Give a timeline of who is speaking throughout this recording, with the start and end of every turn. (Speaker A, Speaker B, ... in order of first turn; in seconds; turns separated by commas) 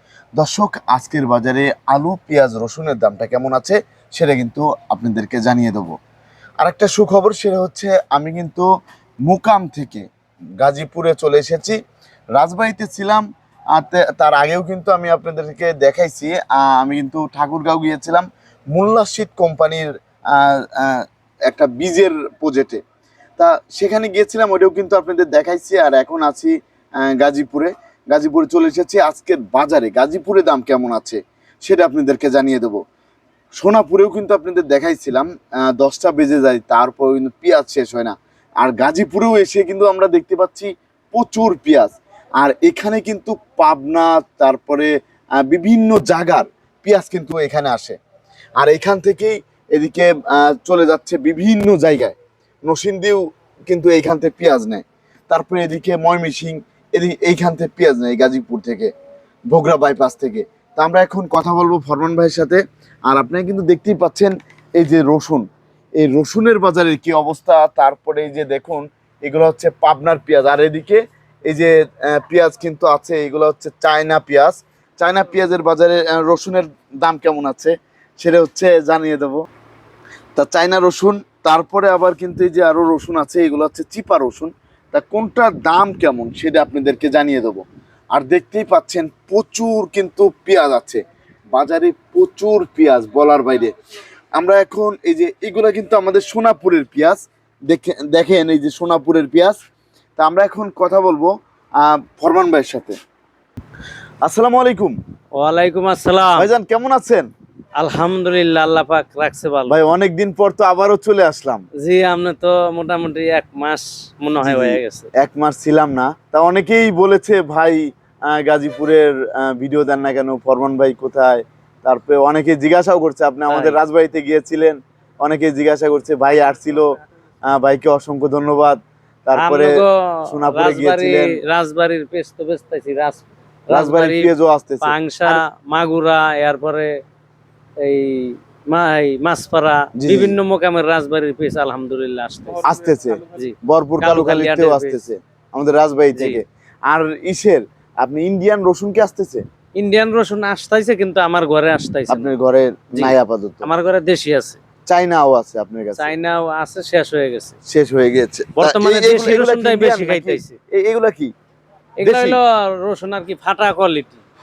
Speaker A: 0.4-6.0, Speaker A: 6.6-8.7, Speaker A: 9.3-10.1, Speaker A: 10.6-11.8, Speaker A: 12.4-22.8, Speaker A: 23.4-32.8, Speaker A: 33.6-48.0, Speaker A: 48.6-58.9, Speaker A: 59.5-65.5, Speaker A: 66.0-79.4, Speaker A: 80.4-91.0, Speaker A: 91.5-93.7, Speaker A: 94.4-99.6, Speaker A: 100.2-103.0, Speaker A: 104.2-105.0, Speaker B: 105.4-106.5, Speaker A: 106.3-107.3, Speaker B: 107.8-109.8, Speaker A: 109.7-111.7, Speaker B: 111.8-115.1, Speaker A: 114.4-126.9, Speaker B: 123.5-123.8, Speaker A: 127.5-129.7, Speaker B: 129.4-134.3, Speaker A: 130.3-131.4, Speaker A: 133.7-135.4, Speaker B: 134.8-137.0, Speaker B: 137.8-142.7, Speaker A: 140.0-140.4, Speaker A: 142.6-149.4, Speaker B: 143.3-145.0, Speaker B: 146.2-146.4, Speaker B: 149.8-152.3, Speaker A: 152.1-153.7, Speaker B: 153.0-154.6, Speaker A: 154.9-156.1, Speaker B: 156.0-157.6, Speaker A: 157.7-161.3, Speaker B: 158.6-160.6, Speaker B: 162.0-164.2, Speaker A: 162.0-162.4